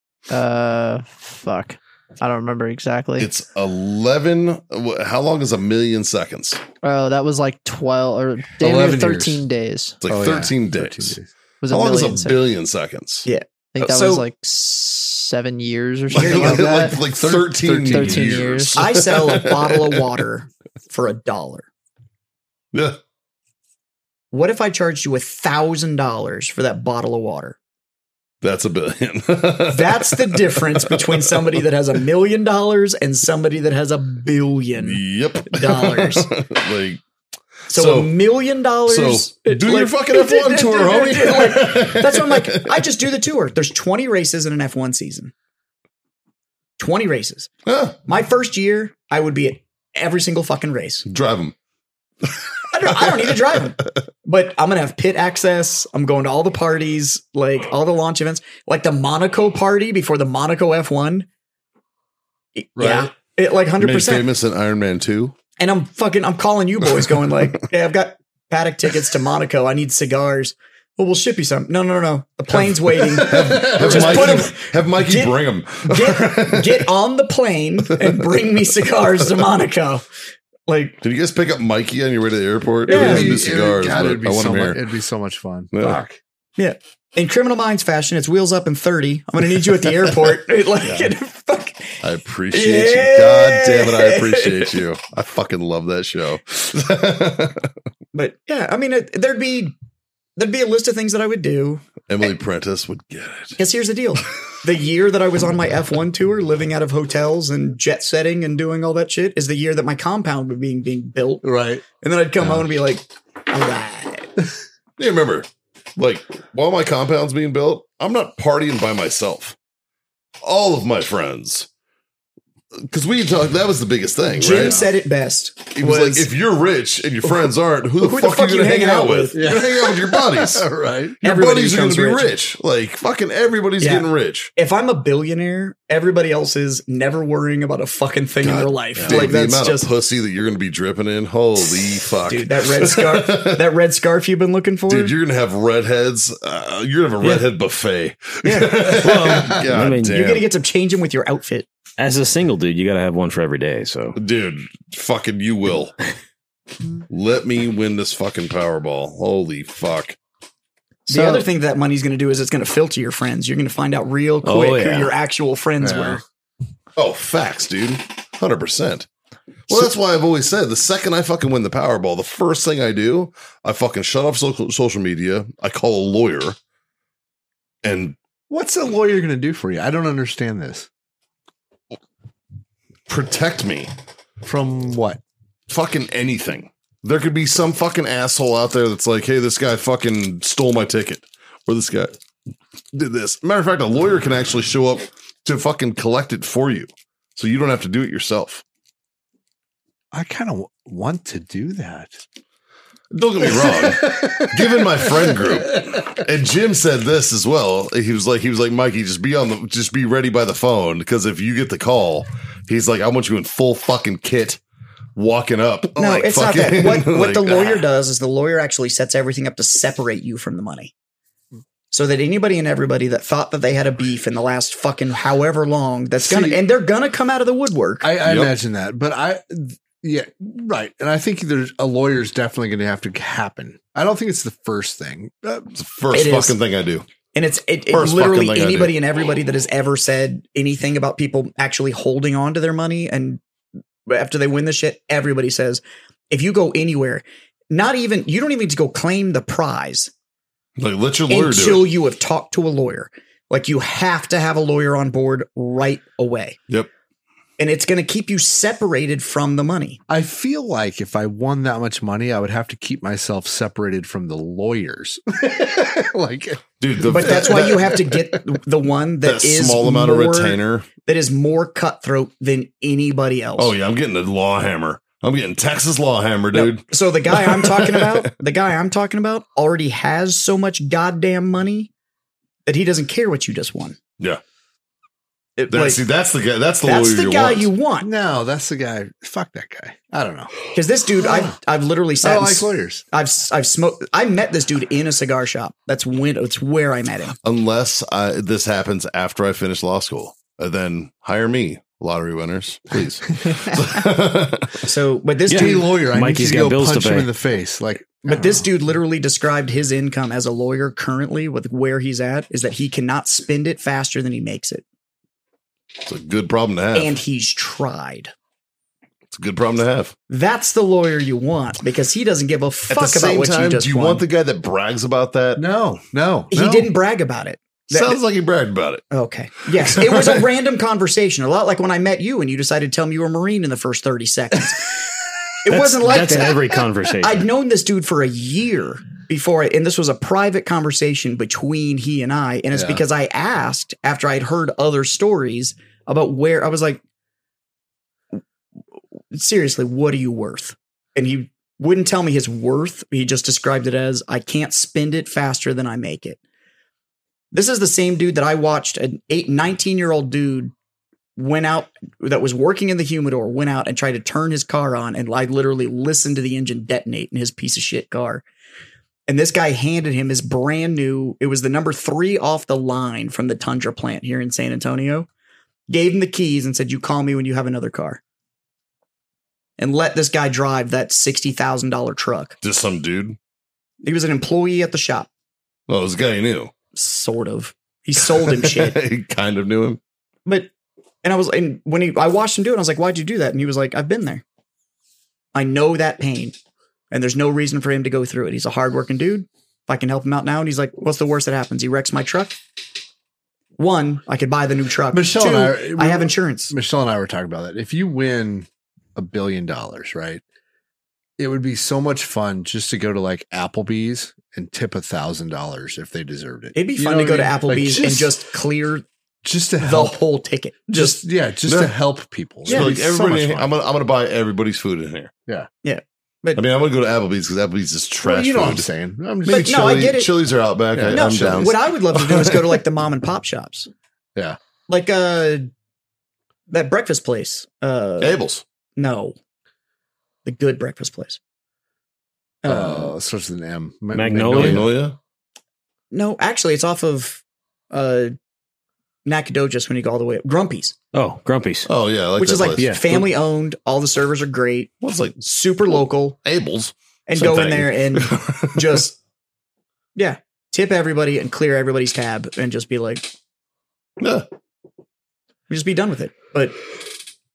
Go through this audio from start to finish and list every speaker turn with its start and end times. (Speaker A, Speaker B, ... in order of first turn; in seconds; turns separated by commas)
Speaker A: 0.3-3.3, Speaker B: 3.2-6.6, Speaker A: 6.8-10.0, Speaker C: 8.6-9.4, Speaker B: 10.0-11.2, Speaker C: 10.1-11.3, Speaker A: 11.6-12.4, Speaker B: 11.7-13.3, Speaker D: 13.3-14.2, Speaker A: 13.7-17.0, Speaker B: 16.1-20.0, Speaker D: 16.1-16.8, Speaker C: 16.4-18.5, Speaker A: 17.9-18.9, Speaker D: 18.7-21.7, Speaker B: 22.7-23.0, Speaker D: 24.3-27.6, Speaker B: 28.4-31.1, Speaker D: 29.7-36.3, Speaker B: 34.8-37.0, Speaker B: 37.7-38.2, Speaker D: 37.7-45.3, Speaker B: 38.9-42.8, Speaker D: 46.8-47.5, Speaker B: 47.7-48.0, Speaker D: 48.1-51.1, Speaker B: 51.1-51.5, Speaker D: 52.7-61.3, Speaker D: 62.5-64.3, Speaker C: 62.8-63.1, Speaker B: 63.8-65.4, Speaker D: 65.6-80.1, Speaker C: 73.0-74.5, Speaker B: 73.1-76.9, Speaker D: 80.7-81.0, Speaker B: 81.0-84.8, Speaker D: 82.9-83.4, Speaker C: 82.9-86.2, Speaker B: 85.7-86.0, Speaker D: 86.6-94.8, Speaker B: 92.0-97.7, Speaker D: 98.1-99.7, Speaker D: 100.4-101.8, Speaker B: 102.1-103.6, Speaker D: 103.6-111.5, Speaker C: 111.4-111.8, Speaker D: 112.0-114.3, Speaker B: 115.0-119.6, Speaker B: 120.4-121.7, Speaker B: 122.8-124.8, Speaker D: 124.4-126.3, Speaker C: 124.5-124.9, Speaker B: 125.8-130.7, Speaker D: 128.0-129.4, Speaker C: 129.3-131.2, Speaker B: 131.2-134.5, Speaker D: 131.2-132.3, Speaker D: 133.8-139.9, Speaker B: 138.4-143.7, Speaker C: 139.0-139.3, Speaker D: 142.2-145.2, Speaker B: 144.9-150.5, Speaker D: 148.4-149.0, Speaker E: 148.9-150.2, Speaker C: 149.1-149.6, Speaker D: 150.1-151.7, Speaker E: 152.0-154.2, Speaker B: 154.2-155.9, Speaker B: 157.1-160.2, Speaker D: 161.1-166.2, Speaker A: 161.1-161.5, Speaker E: 164.4-165.1, Speaker C: 165.8-166.2, Speaker B: 167.0-169.1, Speaker B: 169.7-176.6, Speaker B: 177.8-178.2, Speaker C: 178.5-180.9, Speaker B: 183.1-183.9, Speaker C: 184.4-185.2, Speaker B: 185.7-192.2, Speaker B: 192.9-198.6, Speaker C: 200.1-202.2, Speaker B: 203.1-214.6, Speaker C: 203.4-205.9, Speaker B: 215.2-217.8, Speaker D: 216.0-220.9, Speaker D: 221.9-228.1, Speaker C: 226.2-226.6, Speaker C: 228.0-235.7, Speaker B: 228.2-228.5, Speaker B: 235.7-237.1, Speaker D: 236.1-236.6, Speaker D: 237.3-243.4, Speaker B: 237.9-238.9, Speaker D: 244.1-250.1, Speaker B: 250.8-251.9, Speaker D: 251.3-256.6, Speaker D: 257.6-260.0, Speaker C: 260.1-268.4, Speaker B: 266.8-267.9, Speaker D: 267.1-273.7, Speaker B: 269.2-270.9, Speaker B: 273.6-278.3, Speaker D: 276.5-281.9, Speaker D: 282.7-284.0, Speaker D: 285.6-286.0, Speaker B: 285.7-287.7, Speaker D: 286.8-288.1, Speaker C: 288.0-290.6, Speaker D: 290.7-297.4, Speaker C: 291.2-291.6, Speaker C: 292.2-293.0, Speaker B: 297.4-304.9, Speaker D: 304.8-305.9, Speaker E: 305.5-307.3, Speaker C: 305.5-308.7, Speaker D: 308.2-314.8, Speaker B: 316.0-317.1, Speaker D: 316.9-318.3, Speaker B: 319.3-320.1, Speaker D: 320.3-324.2, Speaker B: 322.9-325.6, Speaker C: 325.6-326.9, Speaker D: 326.5-328.2, Speaker B: 327.9-329.1, Speaker D: 329.1-335.0, Speaker B: 329.8-330.4, Speaker D: 335.6-336.6, Speaker E: 335.8-337.5, Speaker D: 337.2-347.0, Speaker C: 342.7-343.0, Speaker D: 349.3-356.4, Speaker D: 357.5-360.7, Speaker D: 361.4-368.4, Speaker D: 369.3-375.3, Speaker D: 375.9-378.2, Speaker D: 379.8-382.6, Speaker B: 382.6-383.4, Speaker D: 384.0-385.3, Speaker B: 385.9-386.7, Speaker D: 386.9-389.0, Speaker B: 388.4-390.0, Speaker D: 390.5-390.7, Speaker D: 391.2-394.4, Speaker D: 395.5-396.6, Speaker D: 397.1-402.6, Speaker D: 403.8-406.7, Speaker C: 405.1-410.4, Speaker C: 411.4-418.4, Speaker D: 416.8-419.1, Speaker C: 419.4-420.2, Speaker D: 419.8-421.2, Speaker C: 420.9-423.8, Speaker B: 421.7-421.9, Speaker B: 422.6-425.3, Speaker D: 422.7-422.9, Speaker D: 425.8-426.6, Speaker B: 426.6-428.9, Speaker C: 428.2-430.1, Speaker B: 429.4-432.6, Speaker D: 429.5-430.4, Speaker C: 430.9-431.7, Speaker D: 431.1-433.9, Speaker D: 434.9-435.7, Speaker D: 436.7-438.4, Speaker B: 438.2-438.6, Speaker D: 439.0-439.4, Speaker D: 440.4-441.4, Speaker D: 442.6-443.1, Speaker C: 442.7-444.9, Speaker E: 444.1-444.9, Speaker B: 444.5-445.2, Speaker D: 446.1-448.4, Speaker D: 449.2-451.0, Speaker E: 451.1-451.9, Speaker B: 451.9-452.9, Speaker D: 452.4-456.4, Speaker C: 452.8-453.2, Speaker B: 455.0-455.4, Speaker B: 456.4-458.9, Speaker D: 457.3-459.2, Speaker D: 460.1-463.3, Speaker B: 464.2-464.5, Speaker D: 465.7-466.8